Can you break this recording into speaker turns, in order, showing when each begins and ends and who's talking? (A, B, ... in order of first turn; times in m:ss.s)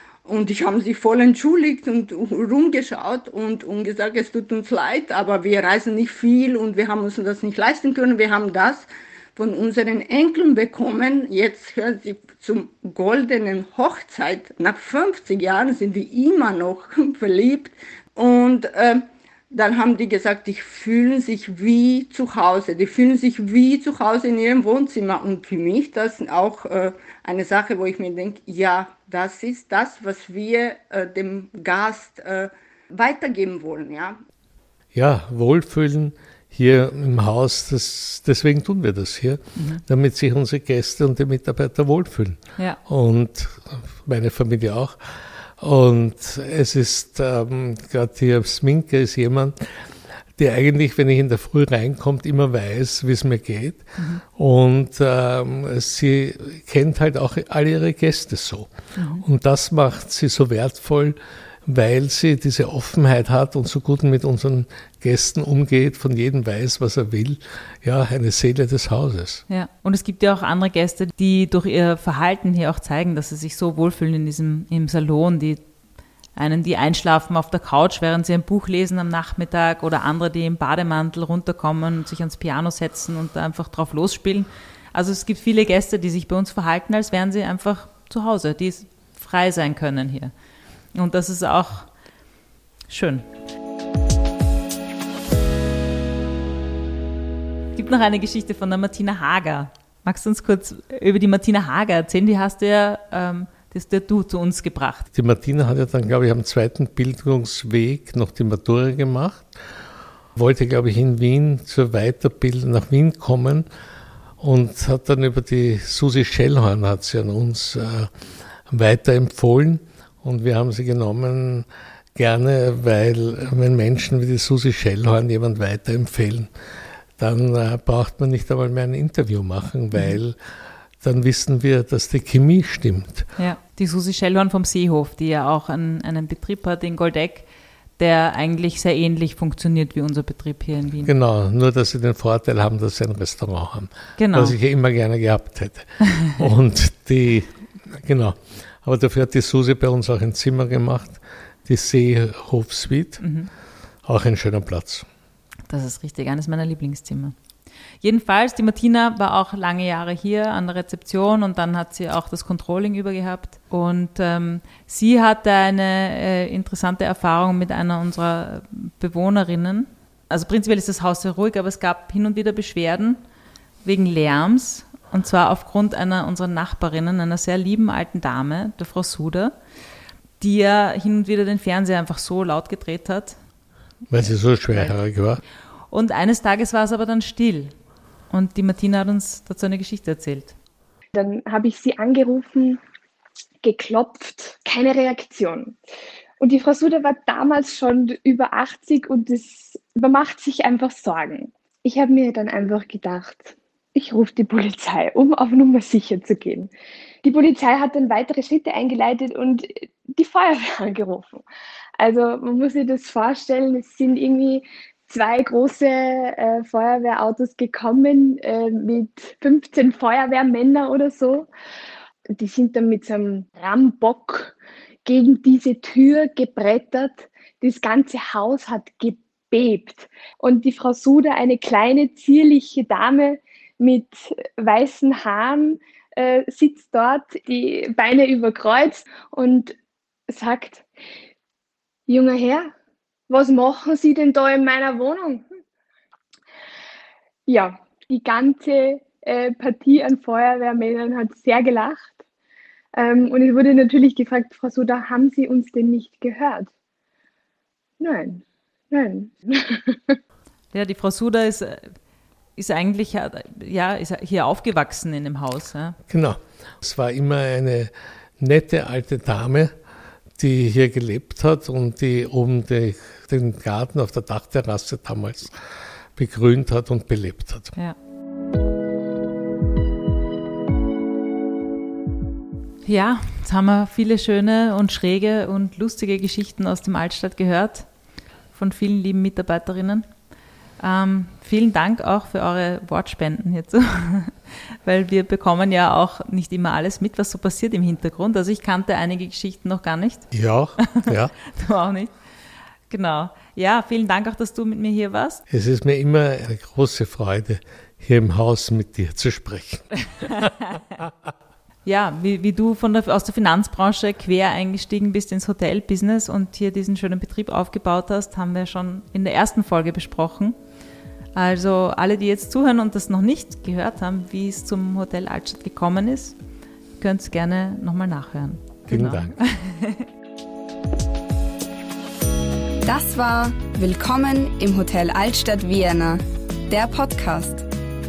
0:00.2-0:34.2 A
0:34.9-0:45.0 B
0:39.6-0:39.8 C
0:45.6-0:49.9 B
0:50.4-0:58.7 B
0:59.0-0:59.2 C
0:59.2-1:09.4 B
1:09.5-1:15.6 C
1:16.4-1:30.3 C
1:31.0-1:31.9 C
1:32.9-1:33.2 C
1:37.8-1:45.1 C
1:45.1-1:49.5 B
1:50.4-1:53.7 B
1:54.4-1:58.1 B
1:58.7-2:06.5 B
2:07.2-2:10.4 B
2:11.0-2:13.3 B
2:13.4-2:17.5 C
2:18.0-2:21.1 C
2:21.0-2:33.2 B
2:24.2-2:24.6 C
2:33.2-2:33.5 C
2:34.1-2:35.1 B
2:35.7-2:37.4 C
2:38.0-2:53.2 C
2:53.8-2:59.6 C
3:00.4-3:03.4 C
3:04.1-3:05.4 B
3:04.2-3:05.0 C
3:05.9-3:07.7 C
3:08.3-3:10.6 C
3:11.1-3:12.8 D
3:13.6-3:15.8 D
3:16.4-3:26.7 D
3:27.2-3:31.4 D
3:32.0-3:41.5 D
3:42.3-3:59.8 D
4:00.3-4:00.8 D
4:02.1-4:02.7 D
4:03.3-4:05.5 D
4:07.5-4:12.2 D
4:13.0-4:16.7 D
4:18.0-4:20.2 D
4:20.7-4:21.9 C
4:22.6-4:26.0 C
4:26.1-4:29.7 B
4:30.4-4:35.5 B
4:36.2-4:37.7 B
4:42.9-4:47.9 C
4:48.5-4:50.0 C
4:50.8-5:02.1 C
5:00.3-5:01.3 B
5:02.9-5:05.4 C
5:05.5-5:10.5 B
5:11.8-5:20.6 C
5:21.4-5:26.4 C
5:27.0-5:30.1 C
5:28.9-5:29.4 B
5:32.8-5:37.7 E